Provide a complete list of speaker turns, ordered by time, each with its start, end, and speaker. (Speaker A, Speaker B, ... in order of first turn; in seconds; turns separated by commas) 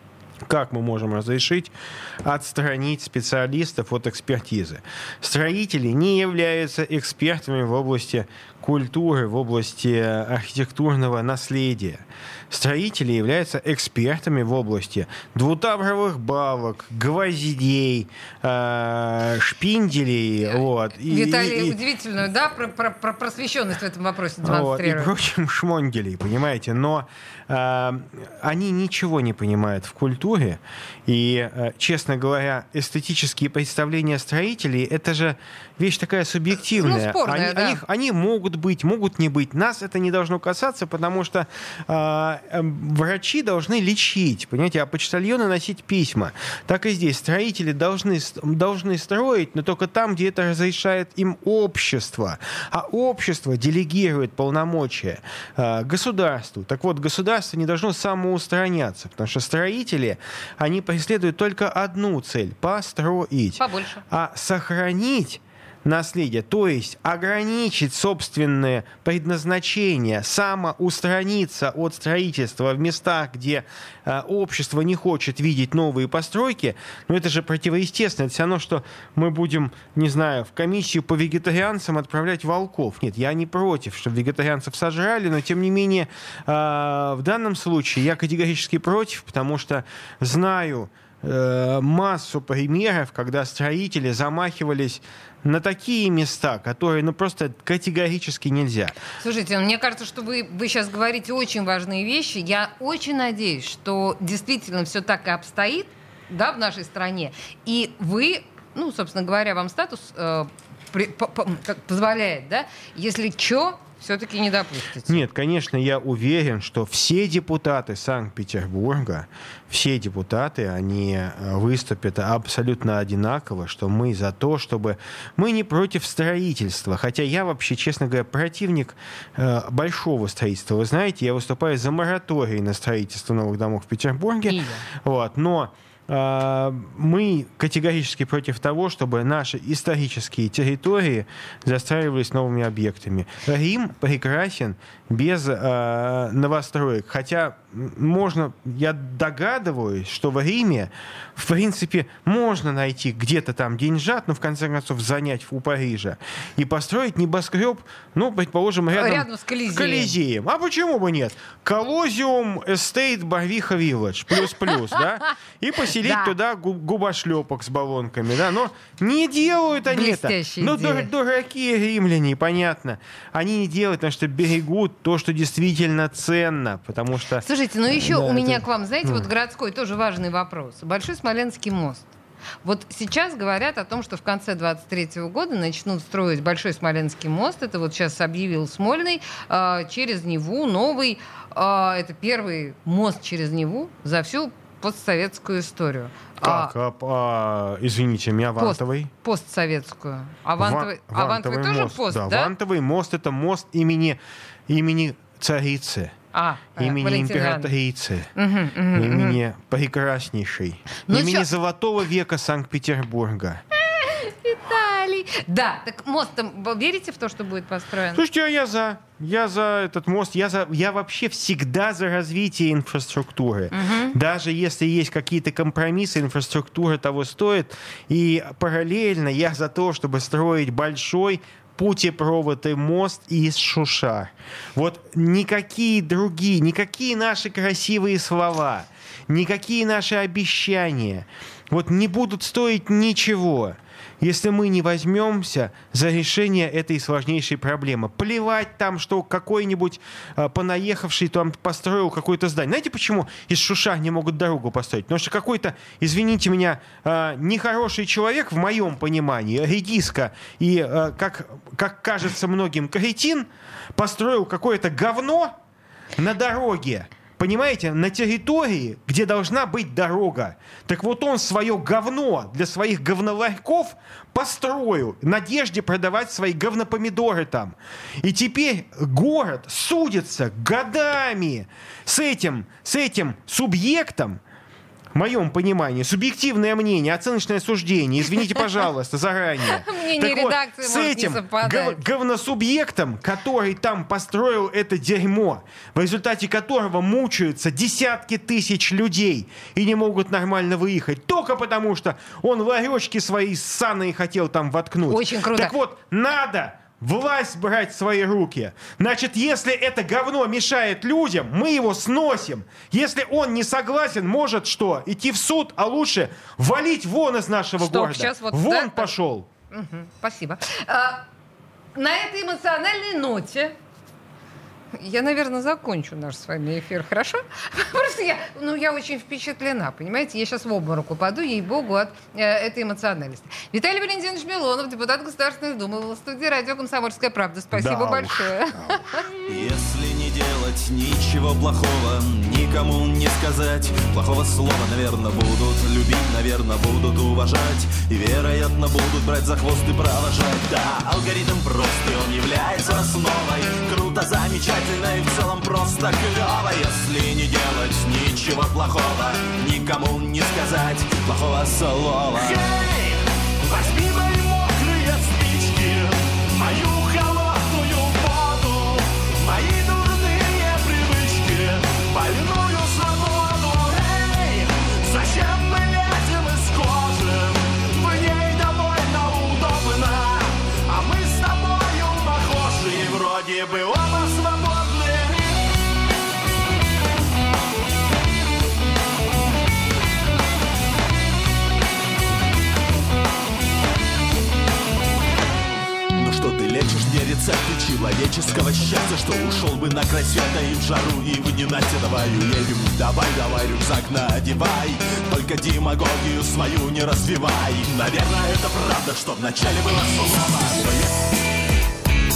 Speaker A: 0.5-21.8, Speaker B: 20.5-25.1, Speaker A: 24.4-99.0, Speaker B: 36.7-37.8, Speaker B: 63.6-64.0, Speaker B: 99.2-115.2, Speaker A: 115.0-179.3, Speaker B: 134.5-134.9, Speaker B: 158.9-160.2, Speaker B: 166.0-166.3, Speaker B: 169.9-171.1, Speaker B: 177.4-182.1, Speaker B: 182.6-196.7, Speaker A: 196.4-199.1, Speaker B: 198.6-202.5, Speaker A: 200.6-206.2, Speaker B: 206.3-207.7, Speaker A: 206.8-208.3, Speaker B: 208.4-209.4, Speaker A: 208.9-213.6, Speaker B: 211.1-211.5, Speaker B: 213.8-218.2, Speaker A: 218.1-265.6, Speaker B: 223.7-224.2, Speaker A: 266.2-284.4, Speaker A: 285.1-319.5, Speaker B: 289.7-292.0, Speaker B: 305.1-305.7, Speaker B: 317.8-319.1, Speaker B: 319.7-321.2, Speaker B: 321.9-323.8, Speaker B: 324.9-339.3, Speaker A: 337.7-339.3, Speaker C: 339.5-385.6, Speaker C: 396.1-411.1